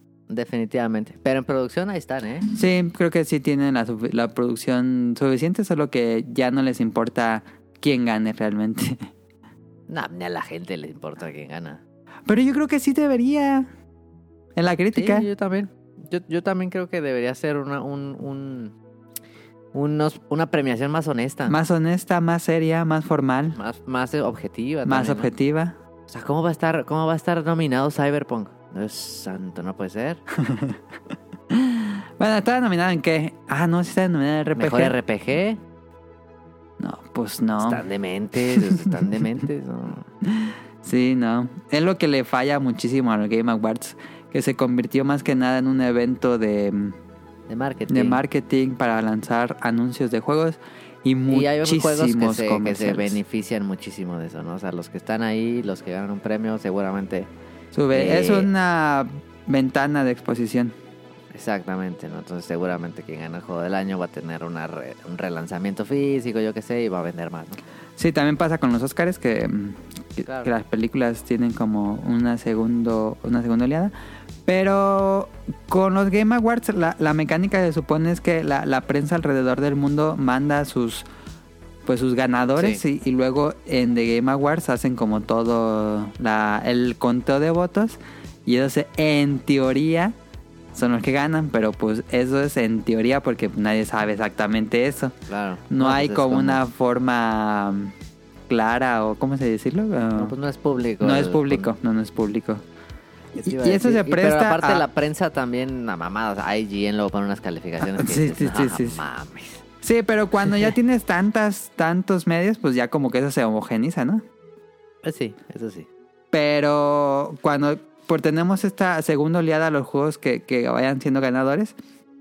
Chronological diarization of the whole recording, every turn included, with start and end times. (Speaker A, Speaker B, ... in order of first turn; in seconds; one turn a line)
Speaker A: 0.3-2.5
Speaker B: 2.5-9.1
Speaker A: 9.9-11.8
Speaker B: 12.3-13.7
Speaker B: 14.6-15.3
Speaker A: 14.9-18.8
Speaker A: 19.7-21.6
Speaker B: 21.5-23.6
Speaker A: 23.6-25.3
Speaker B: 24.9-25.8
Speaker A: 26.1-30.2
Speaker B: 30.4-30.8
Speaker B: 31.5-35.0
Speaker A: 34.5-35.6
Speaker B: 36.8-37.8
Speaker A: 37.6-40.1
Speaker B: 38.5-38.9
Speaker B: 40.3-47.0
Speaker A: 47.5-48.2
Speaker B: 47.9-53.2
Speaker A: 51.3-57.3
Speaker B: 57.7-60.7
Speaker A: 57.9-58.5
Speaker A: 61.3-67.6
Speaker B: 68.0-73.9
Speaker A: 70.2-70.5
Speaker B: 74.5-81.1
Speaker B: 81.9-90.1
Speaker A: 82.6-82.8
Speaker B: 90.7-95.1
Speaker A: 95.3-96.6
Speaker B: 95.7-97.9
Speaker B: 98.5-100.3
Speaker A: 100.2-101.7
Speaker B: 101.0-102.6
Speaker A: 103.4-109.6
Speaker B: 103.4-104.8
Speaker B: 107.8-109.0
Speaker B: 109.8-114.2
Speaker A: 115.0-115.9
Speaker B: 116.3-121.7